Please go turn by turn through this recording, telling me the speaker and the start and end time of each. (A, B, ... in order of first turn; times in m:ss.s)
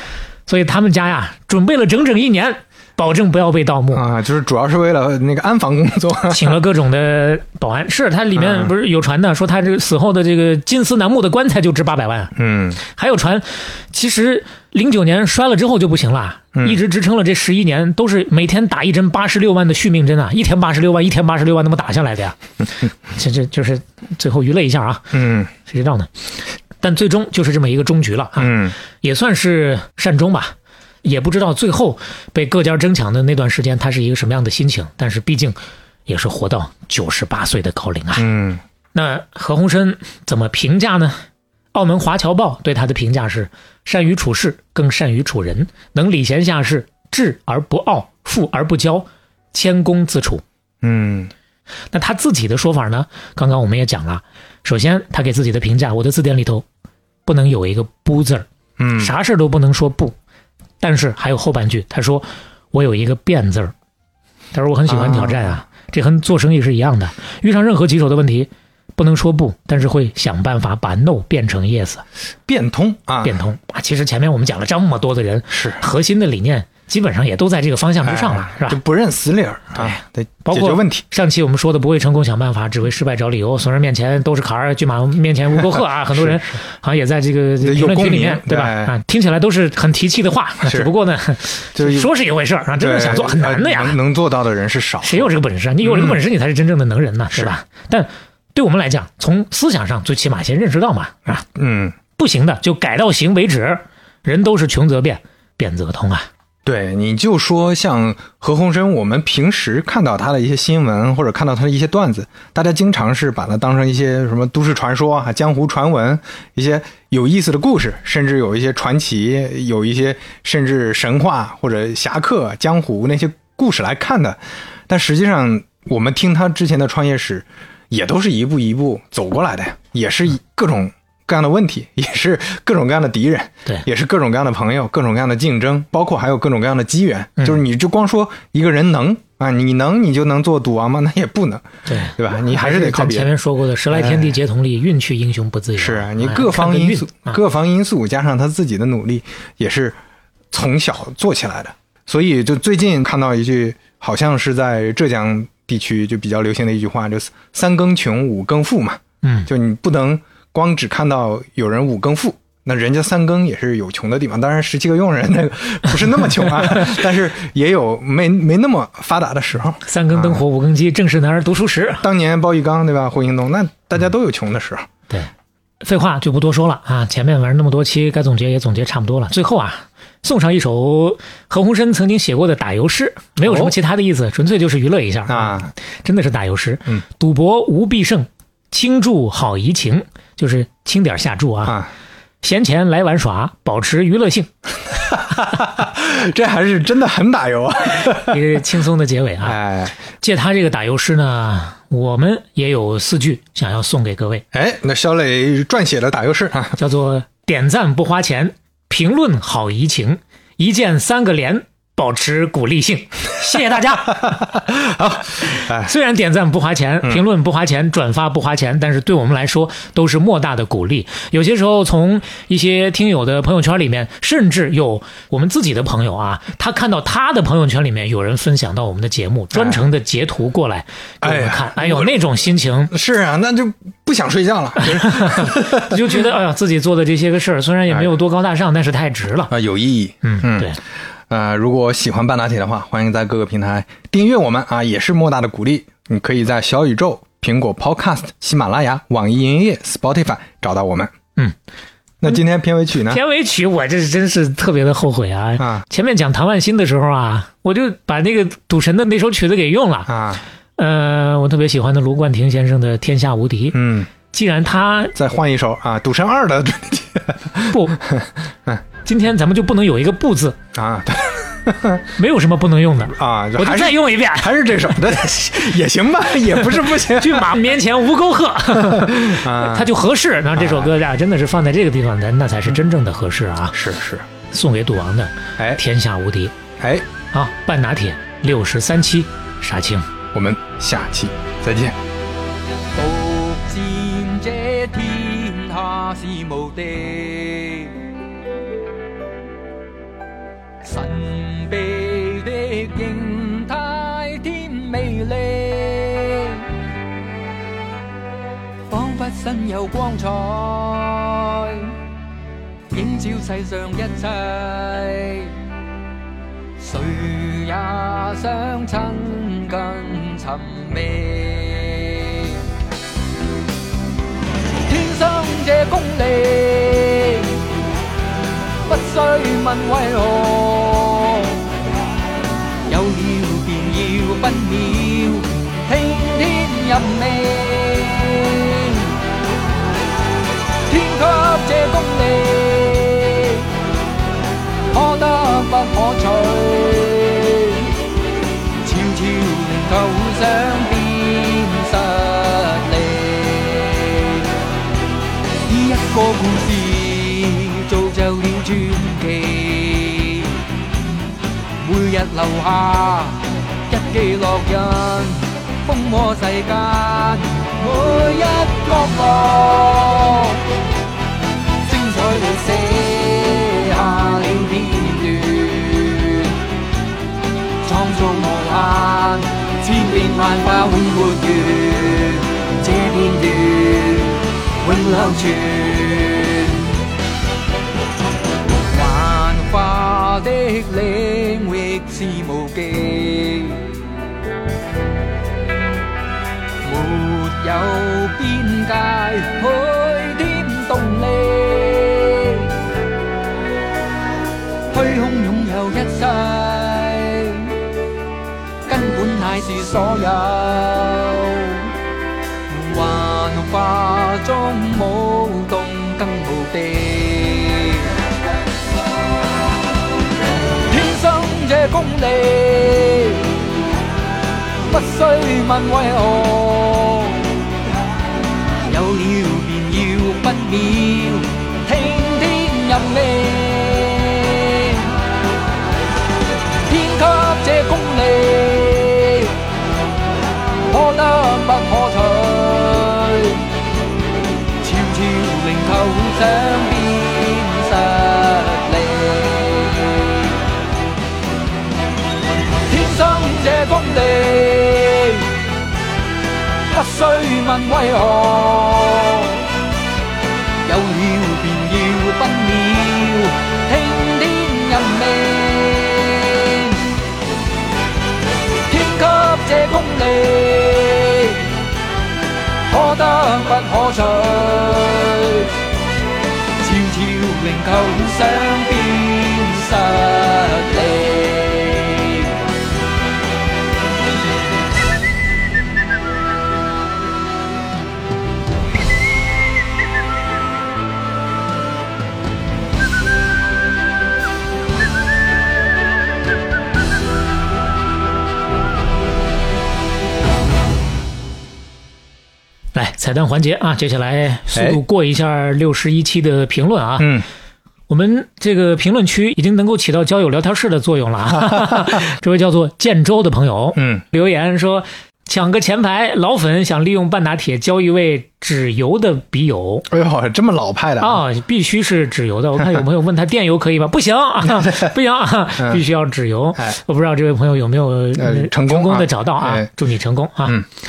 0:00.5-0:04.0 A
0:03.9-0:06.6 B
0:06.3-0:22.4 A
0:08.4-0:08.7 B
0:12.4-0:12.8 B
0:23.0-0:26.1 A
0:25.1-0:25.5 B
0:26.8-0:38.3 A
0:28.4-0:28.8 B
0:38.2-0:38.6 B
0:38.9-0:41.2 A
0:41.7-0:50.4 A
0:50.8-0:51.3 B
0:51.9-0:56.6 A
0:57.3-0:58.5 A
0:58.8-0:59.1 B
0:59.0-1:00.2 A
1:00.8-1:03.7 A
1:04.5-1:12.0 A
1:04.9-1:05.6 B
1:12.5-1:13.4 B
1:13.2-1:18.8 A
1:15.5-1:15.8 B
1:18.0-1:21.0 B
1:19.8-1:34.0 A
1:26.1-1:26.6 B
1:27.6-1:28.9 B
1:30.6-1:30.9 B
1:31.8-1:32.1 B
1:32.8-1:36.2 B
1:35.0-1:41.4 A
1:41.4-1:42.0 B
1:42.2-1:46.3 A
1:46.6-2:23.3 B
2:21.9-2:27.4 A
2:23.9-2:24.4 B
2:25.8-2:30.0 B
2:30.5-2:50.4 B
2:39.2-2:39.5 A
2:49.9-2:52.0 A
2:52.0-2:54.9 B
2:55.8-3:11.8 A
3:03.4-3:03.7 B
3:05.3-3:05.7 B
3:12.4-3:14.5 A
3:15.1-3:18.5 B
3:18.1-3:19.6 A
3:19.4-3:20.0 B
3:20.2-3:24.4 A
3:24.5-3:26.8 B
3:26.8-3:34.4 A
3:34.2-3:35.9 B
3:35.4-3:52.9 A
3:49.5-3:49.8 B
3:51.2-3:52.2 B
3:52.9-3:56.2 B
3:54.8-3:59.6 A
3:59.5-4:00.7 B
4:00.2-4:00.8 A
4:01.3-4:11.1 B
4:12.2-4:13.2 B
4:13.1-4:20.2 A
4:15.6-4:15.8 B
4:20.1-4:20.4 B
4:20.8-4:25.2 A
4:23.7-4:24.1 B
4:25.2-4:28.8 B
4:27.7-4:28.0 A
4:29.0-4:30.6 A
4:30.7-4:32.1 B
4:32.2-4:34.6 A
4:33.2-4:37.6 B
4:36.8-4:43.8 A
4:38.8-4:39.9 B
4:40.6-4:40.9 B
4:43.7-4:44.3 B
4:44.5-4:46.6 A
4:46.8-4:47.1 B
4:47.3-4:50.1 A
4:50.3-4:52.0 B
4:52.9-4:58.0 C
5:00.8-5:06.7 C
5:08.9-5:12.0 C
5:12.9-5:15.5 C
5:16.8-5:22.6 C
5:24.9-5:27.6 C
5:28.9-5:31.7 C
5:32.9-5:39.1 C
5:40.9-5:43.7 C
5:44.9-5:47.9 C
5:48.8-5:54.5 C
5:55.7-6:00.6 C
6:01.8-6:10.6 C
6:11.8-6:16.6 C
6:17.8-6:26.9 C
6:28.9-6:34.0 C
6:36.8-6:42.7 C
6:44.9-6:47.8 C
6:48.9-6:51.9 C
6:52.7-6:58.2 C
7:00.8-7:03.6 C
7:04.9-7:07.5 C
7:08.8-7:15.1 C
7:16.9-7:19.5 C
7:20.9-7:23.6 C
7:24.8-7:30.6 C
7:32.8-7:35.5 C
7:36.9-7:39.6 C
7:40.8-7:47.0 C
7:48.9-7:51.7 C
7:52.9-7:55.7 C
7:56.8-8:02.6 C
8:23.0-8:27.4 A
8:24.8-8:25.0 B
8:27.2-8:27.4 B
8:28.1-8:40.1 A
8:31.6-8:32.1 B
8:34.0-8:34.2 B
8:40.1-8:41.4 B
8:41.2-8:50.8 A
8:44.8-8:45.1 B
8:48.4-8:49.9 B